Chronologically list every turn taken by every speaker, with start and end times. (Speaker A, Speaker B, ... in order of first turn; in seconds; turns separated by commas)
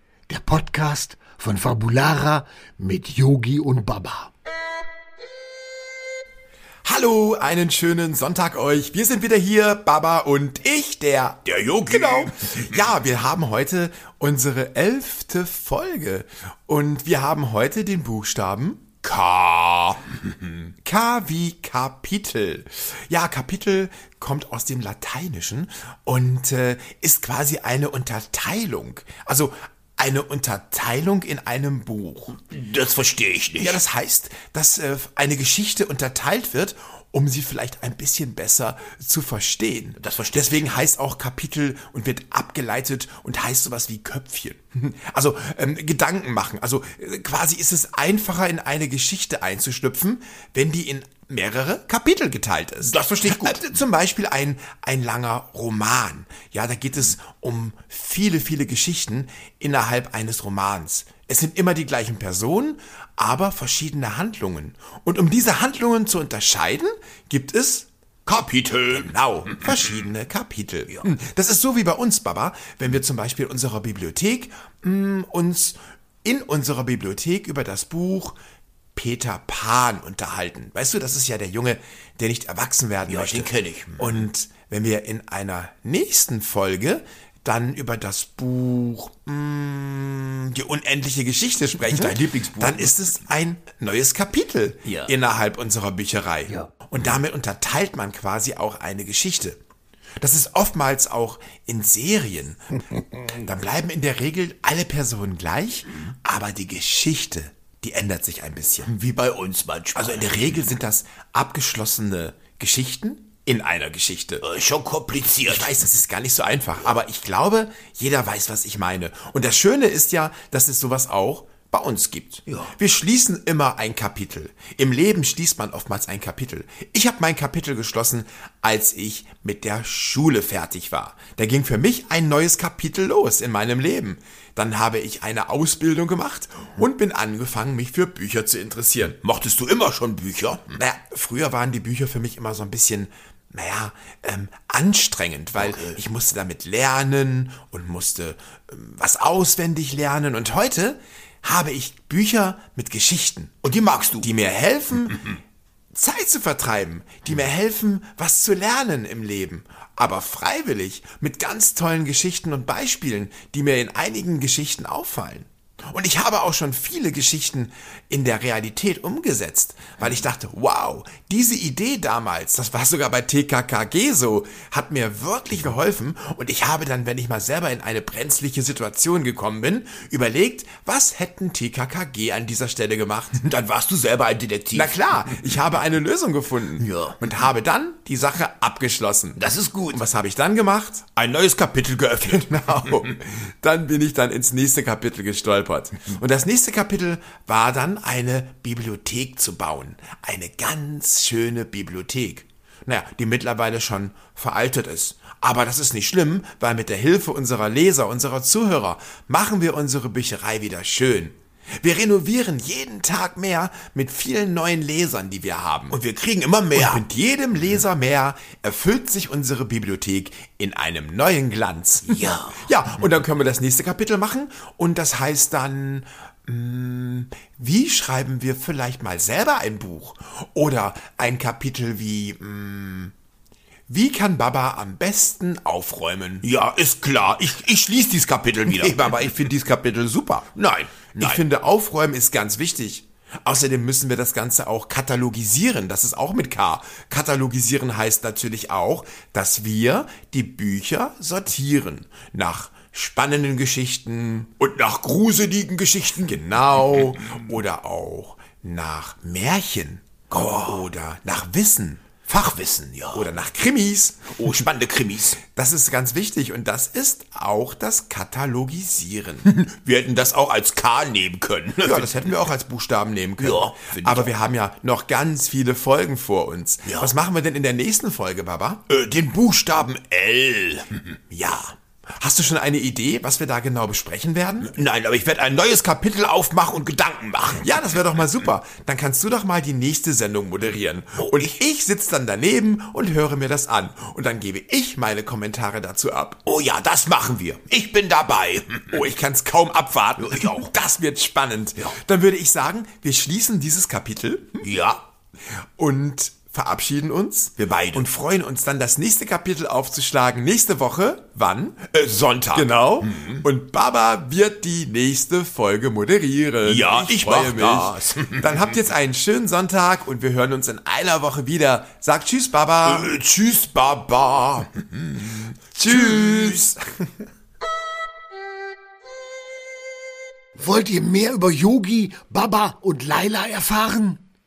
Speaker A: 0.3-4.3, Speaker B: 6.8-19.0, Speaker C: 11.4-12.9, Speaker C: 19.0-20.1, Speaker B: 20.9-32.4, Speaker C: 32.5-33.8, Speaker B: 33.6-67.9, Speaker C: 40.0-40.6, Speaker C: 52.8-53.6, Speaker C: 68.3-70.0, Speaker B: 68.9-78.4, Speaker B: 79.0-99.6, Speaker C: 83.1-84.2, Speaker C: 91.9-92.9, Speaker C: 94.9-95.1, Speaker B: 100.2-108.9, Speaker C: 108.8-110.8, Speaker B: 110.0-114.4, Speaker C: 114.4-115.7, Speaker B: 115.5-139.2, Speaker C: 139.2-140.8, Speaker B: 140.7-153.7, Speaker C: 145.6-146.0, Speaker C: 153.6-154.3, Speaker B: 154.2-155.3, Speaker B: 155.9-183.4, Speaker C: 183.3-185.6, Speaker B: 184.7-189.4, Speaker C: 186.8-187.2, Speaker C: 189.4-190.0, Speaker B: 189.9-191.2, Speaker C: 191.2-193.0, Speaker B: 192.2-216.0, Speaker C: 215.9-217.0, Speaker B: 216.7-233.1, Speaker C: 222.1-222.6, Speaker B: 233.9-236.5, Speaker C: 236.4-239.3, Speaker B: 238.7-240.6, Speaker C: 240.6-241.4, Speaker B: 241.2-254.6, Speaker C: 254.6-256.0, Speaker B: 256.0-262.1, Speaker C: 260.3-260.8, Speaker C: 262.3-263.3, Speaker B: 263.1-264.4, Speaker C: 264.3-265.4, Speaker B: 265.4-269.5, Speaker C: 269.4-272.3, Speaker B: 271.8-278.9, Speaker C: 273.4-274.3, Speaker C: 276.9-277.1, Speaker C: 278.9-281.0, Speaker B: 281.3-284.8, Speaker C: 284.6-288.0, Speaker B: 287.6-296.4, Speaker C: 291.2-291.5, Speaker C: 296.5-299.0, Speaker B: 298.9-304.7, Speaker C: 300.2-300.7, Speaker C: 304.6-305.0, Speaker B: 305.8-312.0, Speaker C: 307.6-308.1, Speaker C: 312.0-313.4, Speaker B: 312.5-323.1, Speaker C: 316.6-318.8, Speaker C: 322.9-326.7, Speaker B: 325.8-326.8, Speaker A: 330.6-334.2